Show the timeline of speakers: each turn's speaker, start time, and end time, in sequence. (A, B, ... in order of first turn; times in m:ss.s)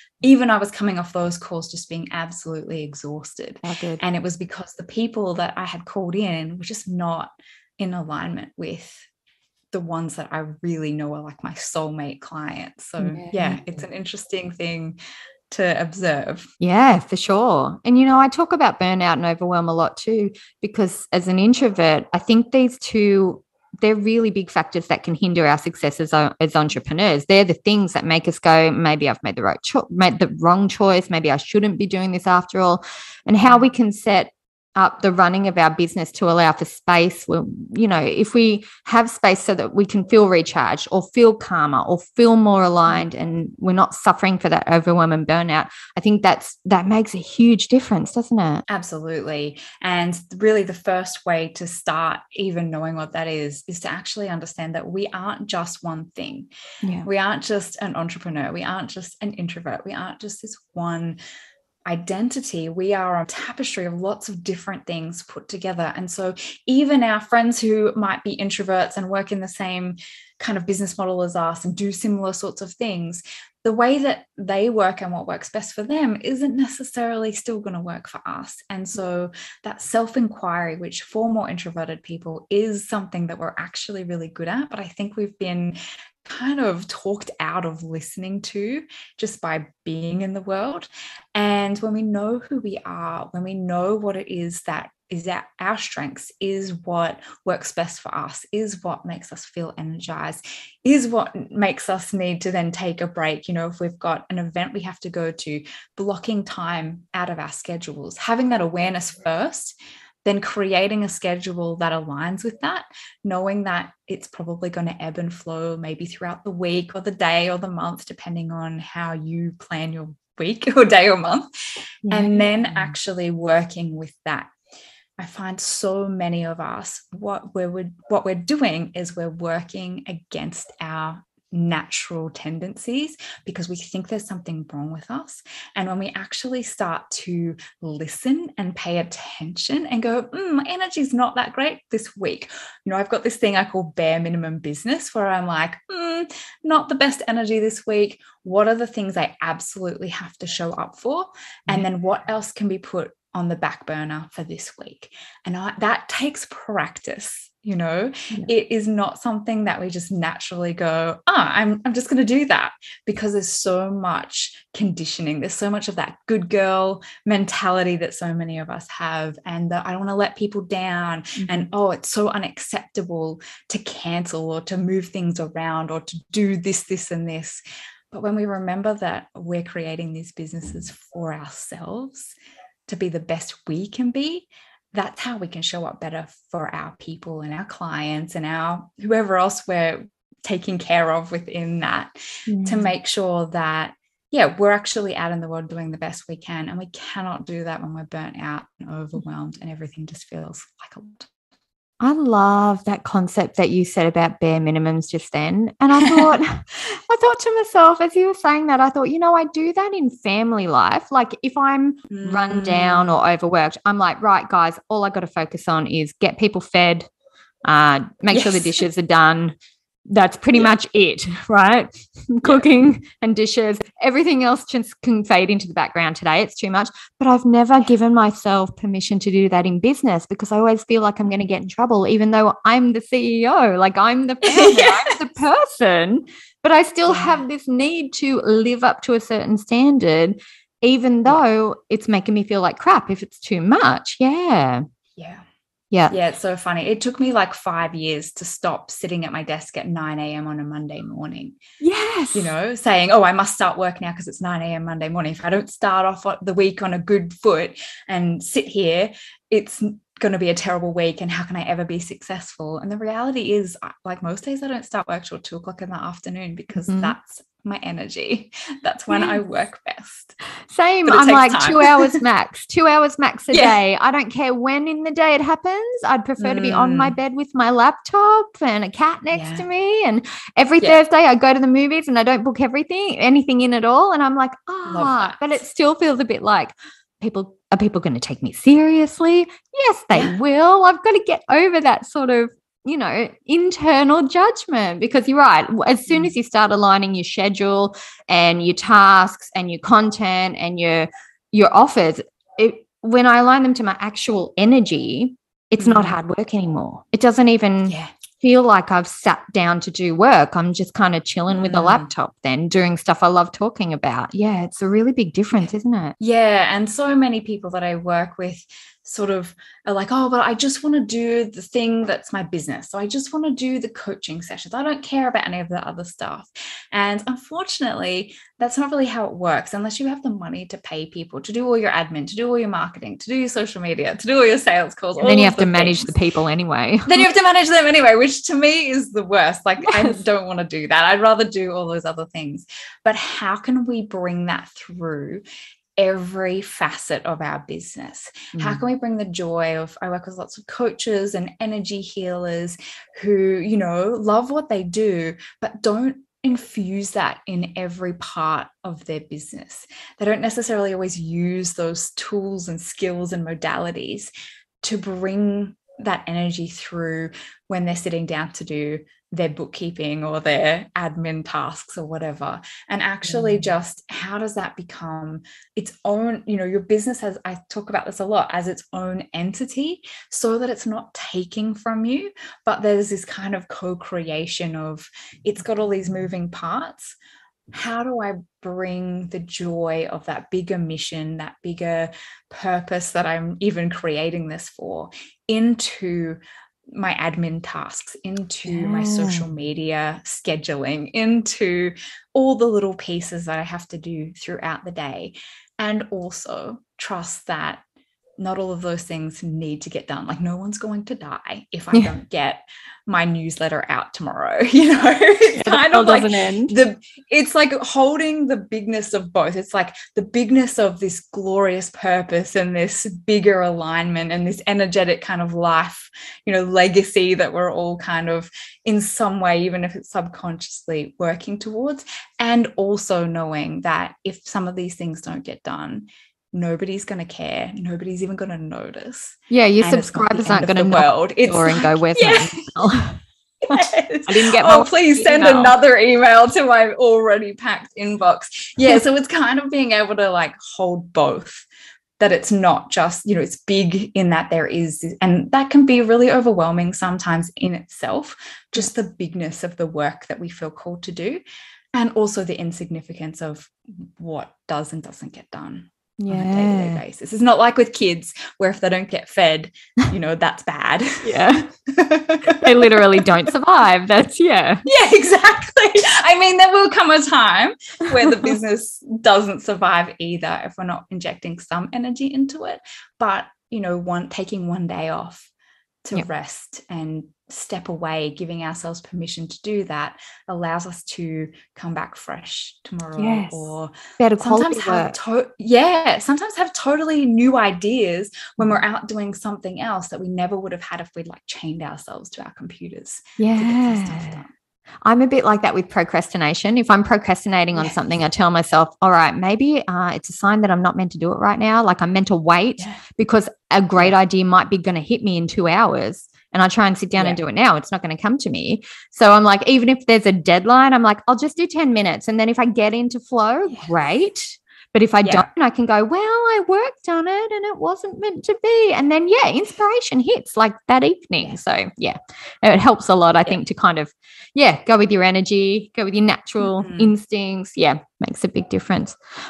0:00.2-0:09.1 A
0:03.6-0:04.0 B
0:09.7-0:15.0 A
0:13.0-0:13.8 B
0:15.5-0:16.5 A
0:16.6-0:48.6 B
0:48.7-0:56.5 A
0:56.8-0:57.1 B
0:57.0-1:01.2 A
1:01.9-2:01.5 A
2:02.0-2:02.9 B
2:02.1-2:04.5 A
2:05.2-3:02.4 A
2:51.4-2:51.7 B
3:02.9-3:12.1 A
3:12.5-3:12.9 B
3:12.6-3:21.3 A
3:22.0-3:37.1 B
3:26.0-3:26.3 A
3:32.1-3:33.2 A
3:37.6-3:39.6 B
3:38.3-3:38.8 A
3:40.1-4:04.8 B
3:54.5-3:55.1 A
3:57.1-3:57.4 A
4:05.2-4:05.4 A
4:06.1-4:11.6 A
4:11.8-4:12.5 B
4:12.3-4:30.3 A
4:26.8-4:27.2 B
4:29.1-4:29.4 B
4:30.7-5:16.2 B
4:31.1-4:32.2 A
4:36.4-4:37.2 A
4:39.3-4:39.6 A
4:44.9-4:45.6 A
5:05.8-5:06.2 A
5:07.9-5:08.1 A
5:11.5-5:12.1 A
5:16.2-5:36.1 A
5:35.2-5:37.3 B
5:37.1-5:45.4 A
5:39.8-5:40.2 B
5:46.0-6:04.3 A
5:48.5-5:48.8 B
6:04.8-6:27.2 A
6:27.7-6:47.8 A
6:38.7-6:39.5 B
6:48.4-7:22.6 A
6:55.5-6:56.8 B
7:19.5-7:23.2 B
7:23.7-7:31.7 A
7:23.7-7:25.8 B
7:32.2-7:41.4 A
7:41.9-7:53.3 A
7:46.2-7:47.0 B
7:51.2-7:51.7 B
7:52.4-7:54.8 B
7:54.8-8:05.5 A
8:06.0-8:24.5 A
8:13.2-8:15.2 B
8:23.4-8:24.4 B
8:25.0-8:59.2 B
8:56.6-8:57.1 A